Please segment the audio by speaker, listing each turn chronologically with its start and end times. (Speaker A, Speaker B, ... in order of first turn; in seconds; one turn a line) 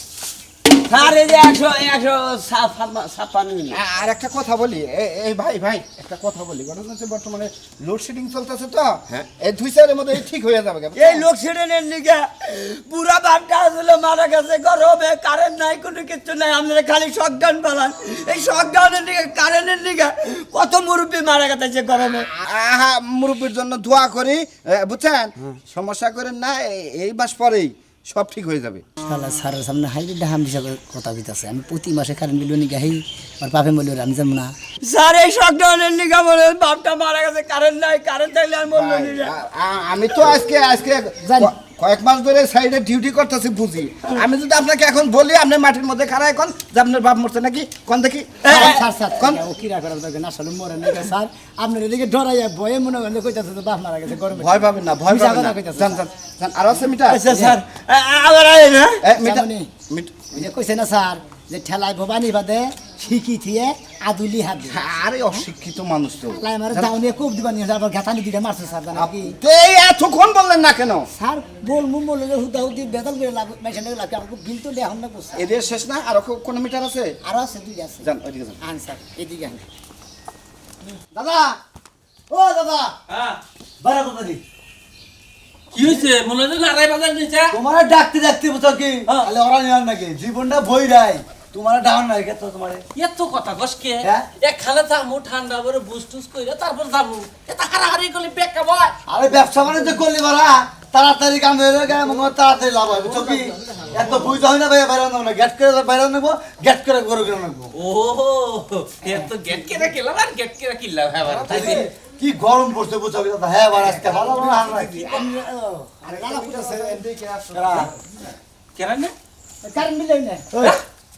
Speaker A: 0.9-3.8
Speaker B: 3.7-11.3
Speaker A: 10.9-22.3
Speaker B: 22.0-28.8
Speaker C: 29.1-34.5
Speaker A: 34.8-39.3
Speaker B: 38.6-49.4
Speaker C: 41.2-41.5
Speaker A: 48.4-48.8
Speaker C: 48.5-56.1
Speaker B: 54.4-57.5
Speaker A: 57.1-59.0
Speaker B: 59.0-60.3
Speaker C: 59.1-59.7
Speaker C: 60.3-65.4
Speaker B: 64.7-66.9
Speaker C: 66.3-69.3
Speaker B: 68.9-71.1
Speaker C: 71.1-75.5
Speaker B: 75.4-77.2
Speaker C: 77.2-78.1
Speaker B: 78.0-78.6
Speaker C: 78.6-79.7
Speaker B: 81.1-81.6
Speaker D: 82.3-82.9
Speaker D: 83.8-84.4
Speaker E: 85.7-87.6
Speaker D: 87.5-92.8
Speaker E: 89.0-89.3
Speaker E: 92.9-99.0
Speaker D: 99.1-107.7
Speaker E: 101.9-102.2
Speaker E: 103.0-104.4
Speaker E: 107.8-111.7
Speaker D: 111.3-115.0
Speaker B: 114.1-114.6
Speaker E: 114.4-115.0
Speaker C: 115.0-117.0
Speaker B: 116.0-117.9
Speaker D: 117.5-117.8
Speaker A: 117.6-117.9
Speaker E: 118.8-119.1
Speaker C: 119.6-120.7